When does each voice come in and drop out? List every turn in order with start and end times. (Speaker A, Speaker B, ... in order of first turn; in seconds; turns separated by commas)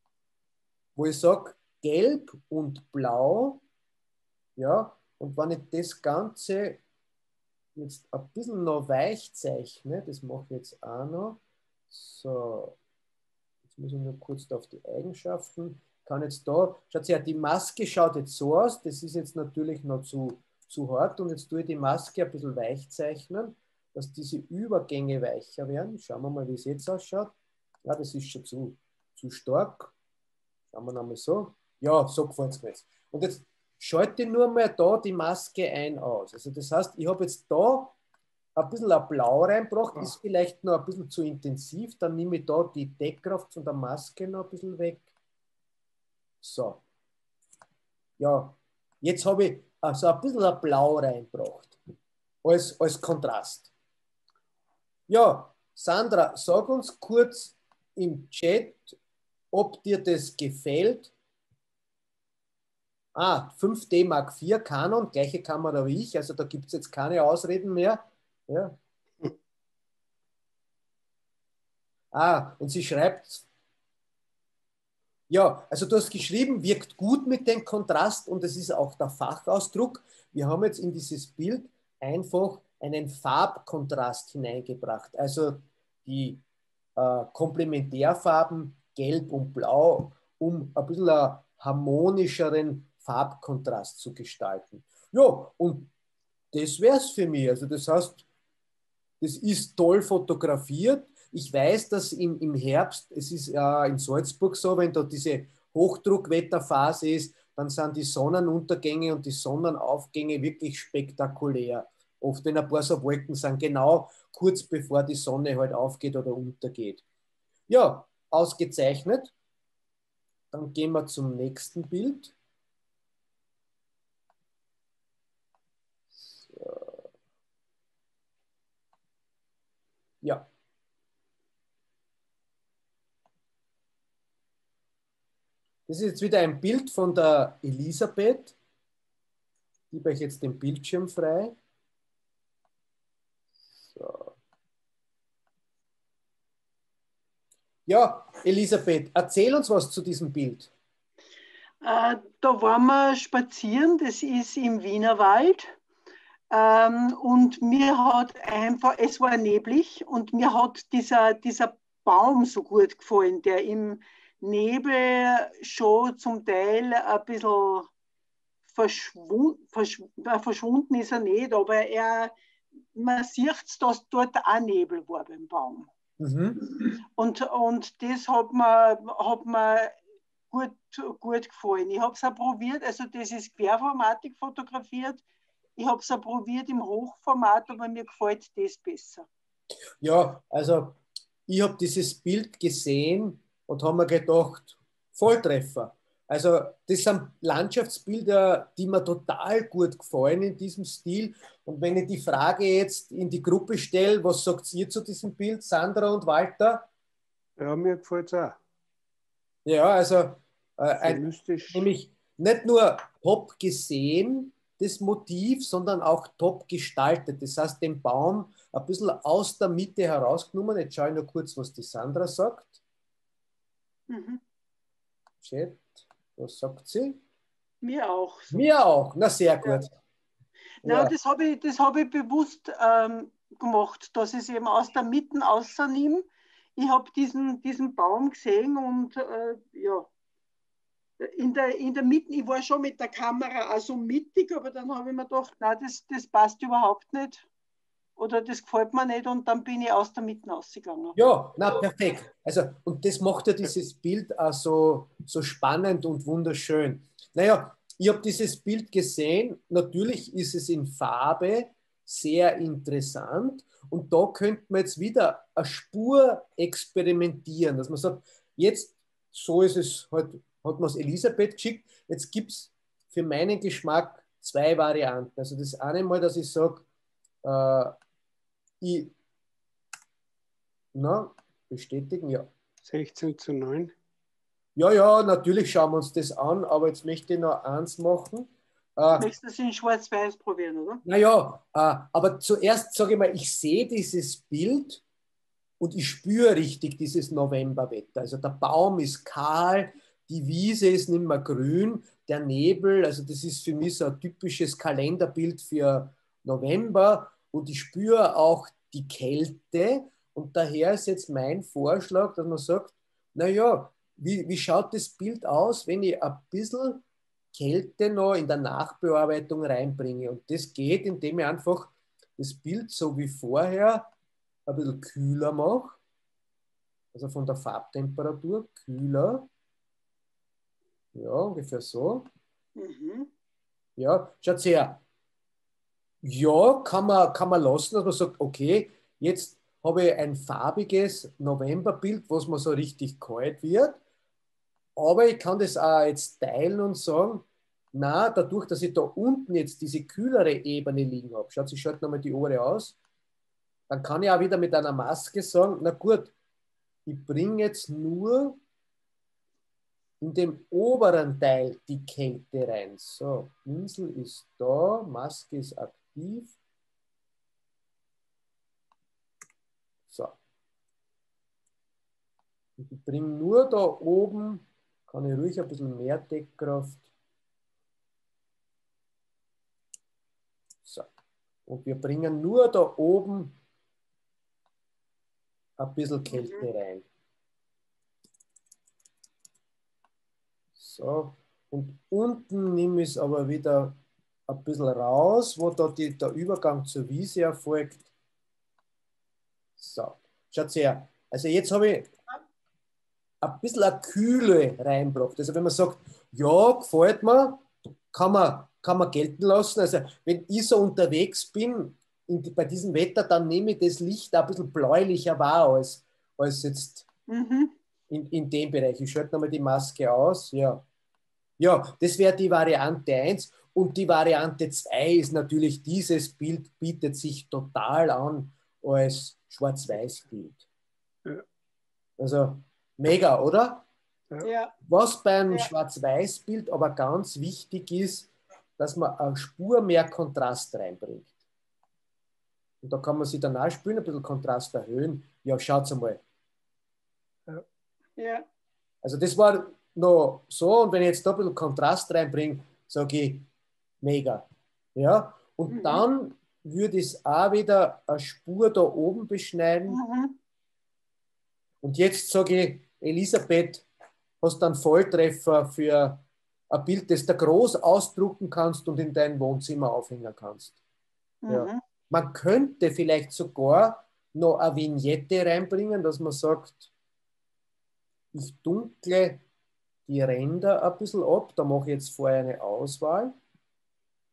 Speaker A: 1.0-3.6, Speaker A: 4.6-6.8, Speaker A: 7.8-12.8, Speaker A: 13.7-27.3, Speaker A: 27.9-29.9, Speaker A: 30.7-38.0, Speaker A: 38.6-45.1, Speaker A: 46.4-46.8, Speaker A: 48.2-51.8, Speaker A: 52.4-53.7, Speaker A: 55.1-59.0, Speaker A: 59.5-61.1, Speaker A: 63.1-68.8, Speaker A: 72.1-73.5, Speaker A: 75.3-86.4, Speaker A: 87.0-95.9, Speaker A: 96.5-98.2, Speaker A: 99.2-117.0, Speaker A: 117.7-119.3, Speaker A: 120.5-122.3, Speaker A: 126.2-127.0, Speaker A: 135.9-138.6, Speaker A: 139.9-141.6, Speaker A: 143.8-144.3, Speaker A: 147.9-150.7, Speaker B: 151.8-155.8, Speaker B: 156.5-167.9, Speaker B: 168.7-172.3, Speaker B: 172.9-175.9, Speaker A: 176.2-176.6, Speaker B: 176.8-180.0, Speaker B: 180.5-185.2, Speaker B: 185.8-189.3, Speaker A: 190.0-206.9, Speaker C: 207.6-208.6, Speaker A: 209.7-222.8, Speaker C: 211.0-211.9, Speaker B: 224.1-224.4, Speaker A: 225.4-227.2, Speaker B: 227.8-228.7, Speaker A: 228.5-230.0, Speaker A: 230.8-231.1, Speaker B: 230.8-240.1, Speaker B: 241.2-247.5, Speaker B: 248.2-251.2, Speaker A: 251.2-276.9, Speaker A: 277.4-277.9, Speaker A: 278.8-279.1, Speaker A: 280.9-282.5, Speaker C: 282.8-283.9, Speaker A: 284.8-289.3, Speaker B: 289.1-291.0, Speaker A: 291.1-295.0, Speaker A: 295.8-324.1, Speaker A: 324.7-326.0, Speaker A: 327.1-329.5, Speaker A: 331.1-332.3, Speaker B: 332.8-333.3, Speaker A: 334.0-335.0, Speaker A: 336.2-344.0, Speaker A: 345.0-352.9, Speaker A: 353.9-356.3, Speaker A: 357.1-358.6, Speaker A: 360.2-366.6, Speaker A: 370.1-370.4, Speaker A: 372.8-377.1, Speaker A: 381.7-383.6, Speaker A: 385.8-387.1, Speaker B: 386.3-386.7, Speaker A: 390.8-398.1, Speaker A: 399.8-402.2, Speaker A: 403.4-417.1, Speaker B: 417.3-417.7, Speaker A: 418.1-420.8, Speaker A: 421.6-430.6, Speaker A: 432.2-433.9, Speaker B: 434.4-434.7, Speaker A: 434.9-441.3, Speaker A: 442.8-446.2, Speaker B: 448.2-448.5, Speaker A: 449.0-453.5, Speaker A: 454.0-454.4, Speaker A: 455.0-460.0, Speaker B: 455.7-456.0, Speaker B: 459.9-460.4, Speaker A: 461.8-463.9, Speaker A: 464.4-470.8, Speaker B: 471.4-471.8, Speaker A: 471.5-476.9, Speaker A: 478.3-479.4, Speaker A: 480.1-483.3